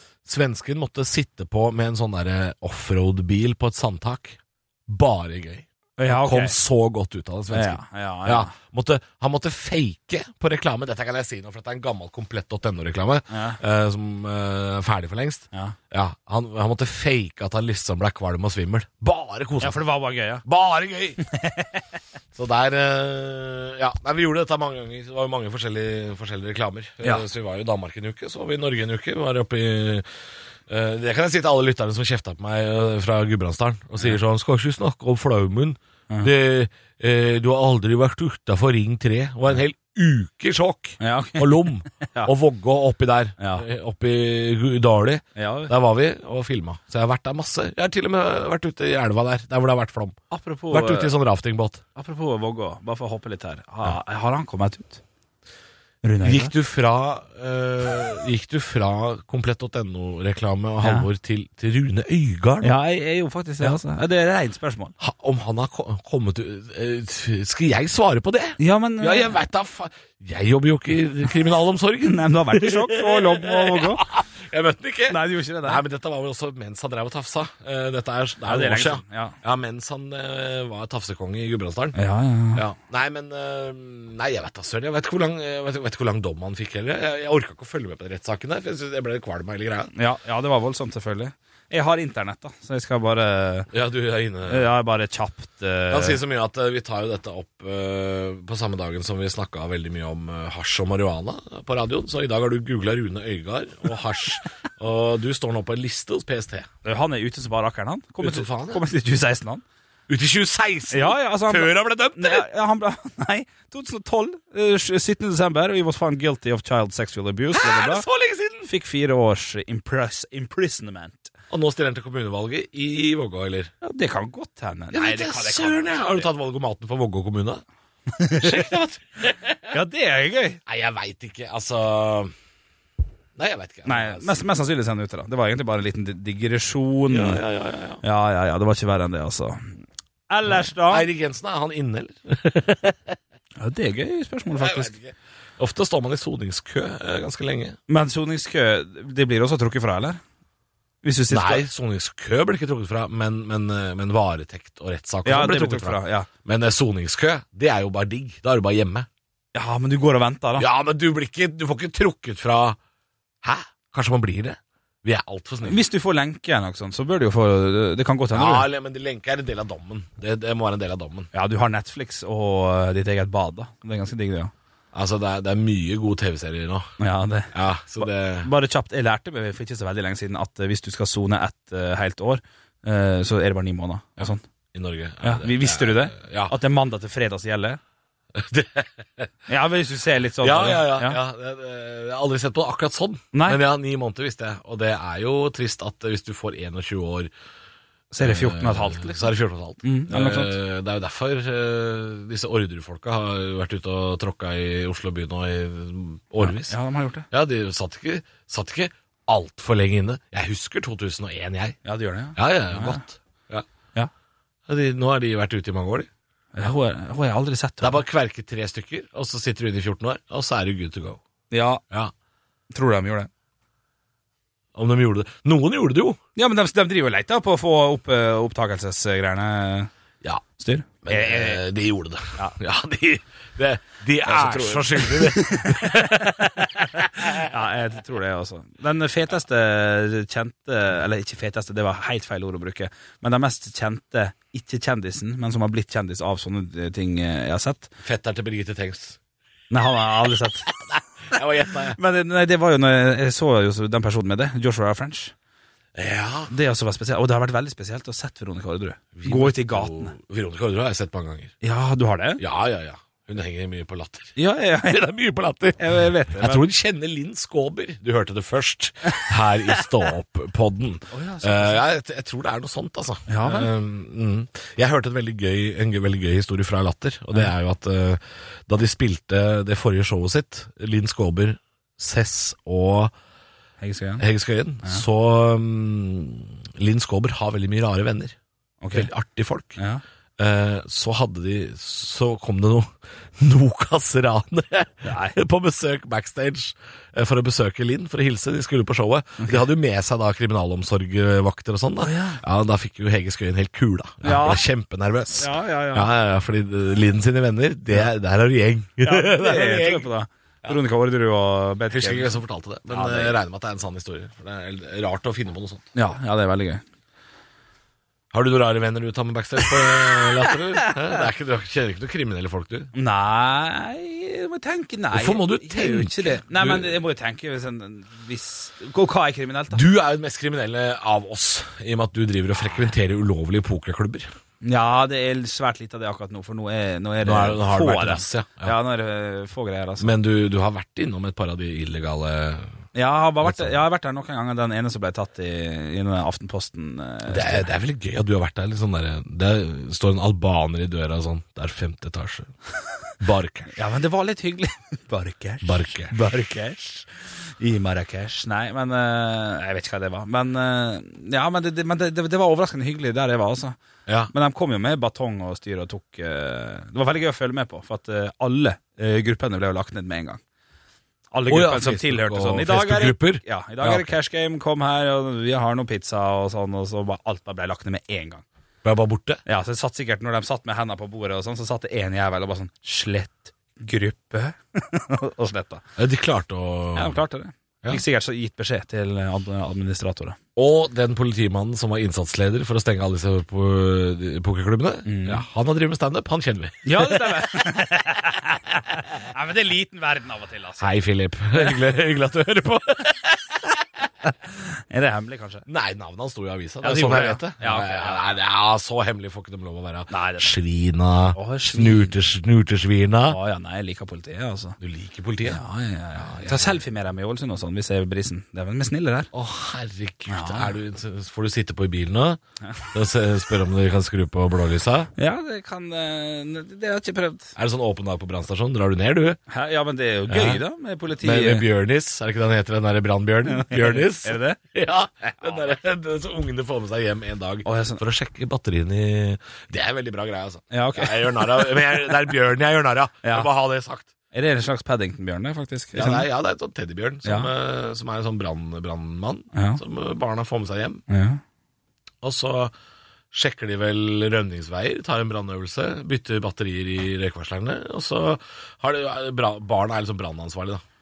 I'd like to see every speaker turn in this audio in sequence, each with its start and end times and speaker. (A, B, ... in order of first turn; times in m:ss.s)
0:00.2-0:19.8 A
0:06.0-0:06.5 B
0:07.5-0:08.5 B
0:13.3-0:13.6 B
0:19.6-0:20.4 B
0:20.4-0:21.2 A
0:21.3-0:21.7 B
0:22.3-0:30.0 A
0:30.7-0:50.2 A
0:41.0-0:42.3 B
0:43.4-0:43.6 B
0:45.4-0:45.7 B
0:50.3-0:51.1 B
0:50.7-0:51.8 A
0:52.0-0:55.0 B
0:56.0-0:56.5 B
0:56.2-1:02.8 A
1:00.8-1:01.1 B
1:02.6-1:04.9 B
1:05.0-1:22.0 A
1:08.6-1:09.3 B
1:12.0-1:14.0 B
1:15.1-1:15.8 B
1:18.4-1:19.4 B
1:21.9-1:22.6 B
1:22.5-1:29.9 A
1:29.9-1:33.7 B
1:33.7-1:34.7 A
1:34.5-1:36.2 B
1:35.9-1:46.7 A
1:46.8-1:49.6 B
1:48.2-1:48.8 A
1:50.1-1:52.4 A
1:50.9-1:58.0 B
1:57.5-1:58.7 A
1:58.6-2:01.3 B
2:01.5-2:03.7 A
2:03.8-2:06.3 B
2:04.9-2:07.6 A
2:08.1-2:08.6 B
2:08.4-2:09.8 A
2:09.7-2:10.6 B
2:10.7-2:12.3 A
2:13.4-2:14.4 A
2:13.8-2:17.4 B
2:17.1-2:18.0 A
2:18.0-2:21.1 B
2:20.5-2:23.2 A
2:23.6-2:24.9 B
2:24.5-2:27.8 A
2:27.9-2:30.2 B
2:31.0-2:31.6 B
2:31.3-2:39.1 A
2:35.2-2:36.3 B
2:39.5-2:40.7 B
2:40.6-2:42.8 A
2:43.4-2:45.8 A
2:45.6-2:48.7 B
2:48.3-2:51.3 A
2:51.3-2:54.5 B
2:54.9-2:56.9 A
2:57.0-3:04.4 B
2:57.5-2:58.5 A
3:04.2-3:06.5 A
3:05.2-3:07.8 B
3:08.3-3:09.3 A
3:09.5-3:11.2 B
3:10.4-3:17.3 A
3:13.3-3:13.6 B
3:18.1-3:19.3 B
3:18.2-3:26.8 A
3:19.8-3:20.6 B
3:26.4-3:27.2 B
3:27.3-3:31.8 A
3:31.8-3:33.0 B
3:32.3-3:33.6 A
3:34.7-3:36.1 A
3:36.5-3:38.0 B
3:37.8-3:41.2 A
3:41.5-3:41.8 B
3:42.7-3:43.3 B
3:44.7-3:46.2 A
3:46.4-3:49.9 B
3:50.6-3:51.6 B
3:51.0-3:57.5 A
3:54.2-4:07.9 B
4:08.0-4:09.2 A
4:09.7-4:10.7 B
4:10.7-4:12.0 A
4:11.9-4:15.3 B
4:15.9-4:16.5 A
4:16.5-4:20.1 B
4:19.1-4:21.5 A
4:21.6-4:22.4 B
4:22.4-4:25.8 A
4:24.4-4:25.0 B
4:25.8-4:26.6 B
4:26.3-4:43.1 A
4:31.1-4:31.8 B
4:33.3-4:33.7 B
4:43.8-4:44.2 B
4:44.2-4:48.4 A
4:48.8-4:49.1 B
4:48.9-4:49.8 A
4:49.8-4:50.0 B
4:50.4-5:10.1 A
4:55.0-4:55.4 B
5:02.0-5:02.4 B
5:04.2-5:04.6 B
5:05.3-5:06.1 B
5:09.0-5:12.4 B
5:11.9-5:15.9 A
5:12.9-5:13.4 B
5:15.9-5:16.8 B
5:18.3-5:22.9 A
5:22.9-5:29.8 B
5:25.1-5:27.0 A
5:29.7-5:34.3 A
5:34.6-5:40.1 B
5:37.2-5:38.8 A
5:40.0-5:42.7 A
5:42.9-5:47.7 B
5:43.4-5:43.8 A
5:47.3-5:52.5 A
5:53.2-5:53.7 A
5:53.7-6:03.8 B
5:55.6-5:56.2 A
6:04.1-6:04.3 A
6:04.3-6:10.4 B
6:11.3-6:18.4 B
6:11.5-6:14.1 A
6:18.8-6:19.4 A
6:19.4-6:25.8 B
6:26.0-6:27.2 A
6:26.9-6:30.4 B
6:30.6-6:37.4 A
6:35.0-6:35.4 B
6:36.8-6:40.9 B
6:40.8-6:43.7 A
6:44.2-6:45.6 B
6:45.6-6:53.4 A
6:46.8-6:48.4 B
6:50.1-6:50.5 B
6:51.3-6:52.1 B
6:53.3-6:54.8 B
6:54.8-6:55.6 A
6:55.4-6:59.3 B
6:56.2-6:56.8 A
6:59.3-7:02.4 A
7:00.3-7:00.7 B
7:02.9-7:05.1 A
7:05.2-7:07.6 B
7:07.6-7:09.4 A
7:09.5-7:11.6 B
7:10.3-7:10.6 A
7:11.2-7:24.1 A
7:13.5-7:14.6 B
7:15.2-7:15.6 B
7:17.6-7:18.0 B
7:20.7-7:22.1 B
7:23.2-7:23.5 B
7:24.3-7:26.3 B
7:25.9-7:31.0 A
7:27.2-7:27.5 B
7:29.5-7:29.8 B
7:31.1-7:31.4 B
7:32.2-7:32.7 A
7:33.3-7:40.8 A